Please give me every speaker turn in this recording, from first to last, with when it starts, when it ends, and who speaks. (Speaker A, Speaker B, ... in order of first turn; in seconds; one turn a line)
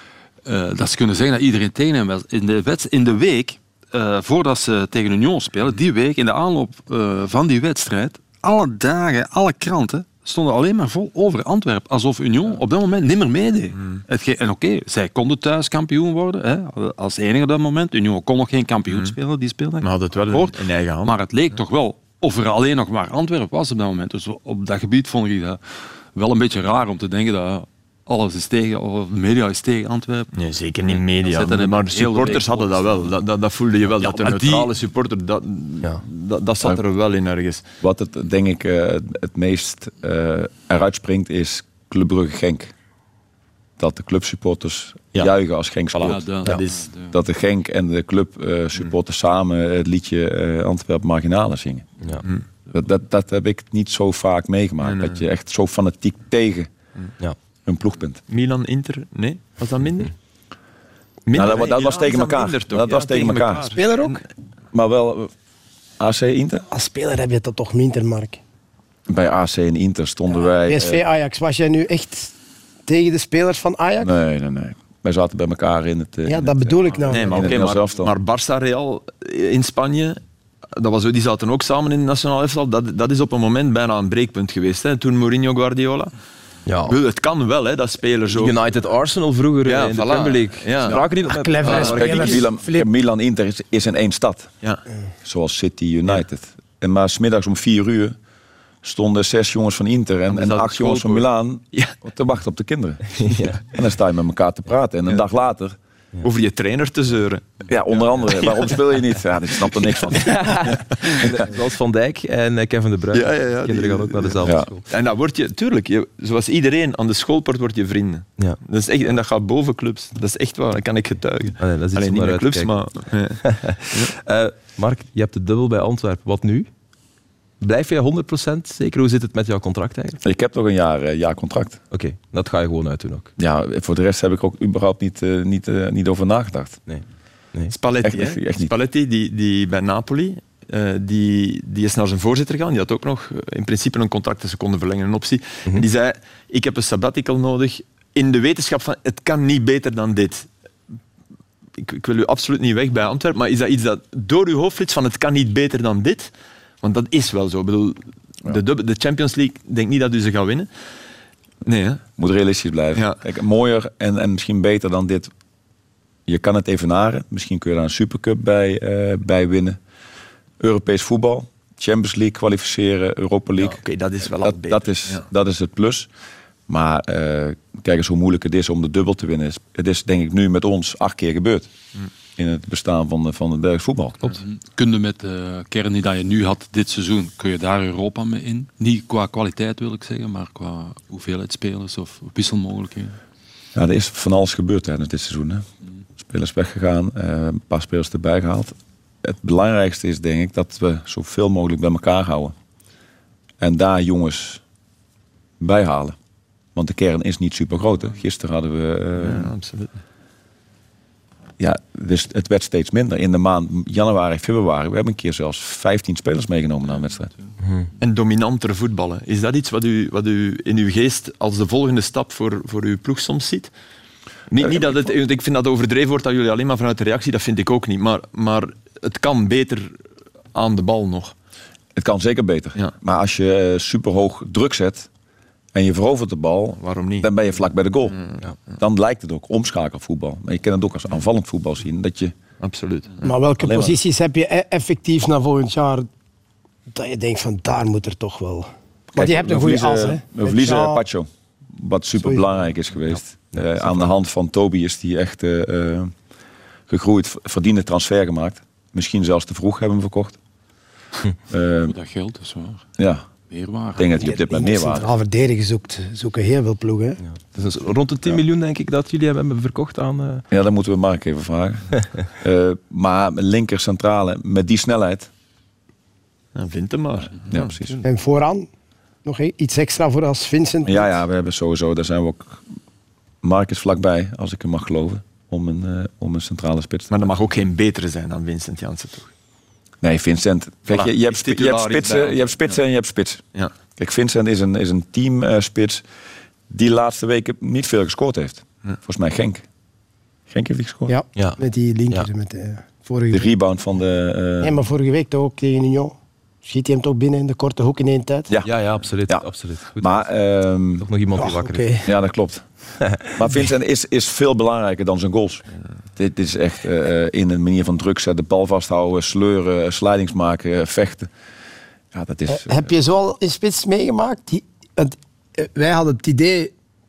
Speaker A: 0.5-25.6
Speaker B: 13.8-14.0
Speaker B: 18.9-19.1
Speaker B: 19.8-21.2
Speaker A: 26.1-33.2
Speaker B: 30.3-37.7
Speaker A: 34.0-34.7
Speaker C: 37.8-42.7
Speaker C: 43.8-51.9
Speaker A: 46.0-47.2
Speaker B: 46.1-46.9
Speaker C: 52.7-56.7
Speaker B: 54.8-55.2
Speaker C: 57.7-58.2
Speaker B: 58.3-60.1
Speaker B: 61.3-64.2
Speaker C: 61.3-63.7
Speaker D: 63.8-64.2
Speaker C: 64.7-65.3
Speaker C: 66.0-66.7
Speaker D: 66.7-68.4
Speaker C: 69.1-71.0
Speaker D: 70.7-72.3
Speaker D: 72.9-74.1
Speaker C: 74.0-78.1
Speaker D: 76.3-77.5
Speaker B: 77.1-80.2
Speaker B: 80.7-86.1
Speaker E: 86.7-87.0
Speaker B: 86.9-88.6
Speaker E: 88.3-92.5
Speaker B: 89.7-91.1
Speaker D: 91.2-92.9
Speaker C: 91.6-94.5
Speaker C: 95.2-98.2
Speaker C: 98.8-105.8
Speaker B: 100.3-101.9
Speaker E: 103.2-103.6
Speaker B: 106.2-107.7
Speaker C: 107.7-110.7
Speaker B: 108.4-108.6
Speaker E: 110.2-114.9
Speaker B: 113.1-124.2
Speaker C: 114.4-114.7
Speaker E: 121.6-122.8
Speaker E: 123.5-126.7
Speaker E: 127.6-130.2
Speaker C: 130.2-131.8
Speaker E: 131.9-133.3
Speaker C: 133.4-136.8
Speaker E: 136.9-137.7
Speaker B: 137.7-150.5
Speaker C: 138.0-138.7
Speaker B: 151.8-160.7
Speaker B: 161.7-162.0
Speaker C: 162.2-165.3
Speaker B: 162.9-163.2
Speaker C: 166.3-169.8
Speaker C: 170.6-176.1
Speaker B: 173.6-175.2
Speaker C: 176.7-181.8
Speaker C: 182.4-184.2
Speaker A: 184.2-193.2
Speaker C: 193.8-195.7
Speaker C: 196.2-202.6
Speaker C: 203.6-204.6
Speaker C: 205.6-206.2
Speaker C: 206.8-209.5
Speaker B: 209.2-210.0
Speaker C: 211.6-217.3
Speaker E: 217.6-217.9
Speaker B: 218.0-223.7
Speaker B: 224.5-230.0
Speaker C: 224.6-225.0
Speaker B: 230.5-231.3
Speaker C: 232.0-235.1
Speaker C: 235.7-242.3
Speaker B: 236.8-237.3
Speaker B: 238.2-238.7
Speaker B: 242.6-243.3
Speaker D: 243.2-246.1
Speaker C: 243.6-244.0
Speaker D: 246.9-251.0
Speaker C: 249.2-256.1
Speaker C: 256.9-260.4
Speaker C: 261.5-261.9
Speaker A: 261.9-262.9
Speaker C: 263.0-263.2
Speaker A: 263.5-264.3
Speaker C: 263.9-265.1
Speaker D: 264.2-267.2
Speaker E: 267.2-270.4
Speaker C: 270.5-275.3
Speaker B: 276.6-278.0
Speaker C: 277.5-278.0
Speaker D: 278.0-278.7
Speaker D: 279.2-281.1
Speaker C: 280.8-282.7
Speaker C: 283.4-287.2
Speaker B: 287.1-289.3
Speaker C: 290.0-296.0
Speaker B: 290.9-292.8
Speaker C: 296.7-299.6
Speaker C: 300.5-301.1
Speaker D: 301.1-303.5
Speaker E: 301.4-302.3
Speaker C: 303.3-304.8
Speaker D: 304.6-308.5
Speaker E: 308.6-310.3
Speaker C: 310.0-311.1
Speaker E: 311.0-311.9
Speaker D: 311.4-312.1
Speaker C: 312.0-315.6
Speaker C: 316.2-321.3
Speaker C: 322.1-322.9
Speaker D: 322.5-326.7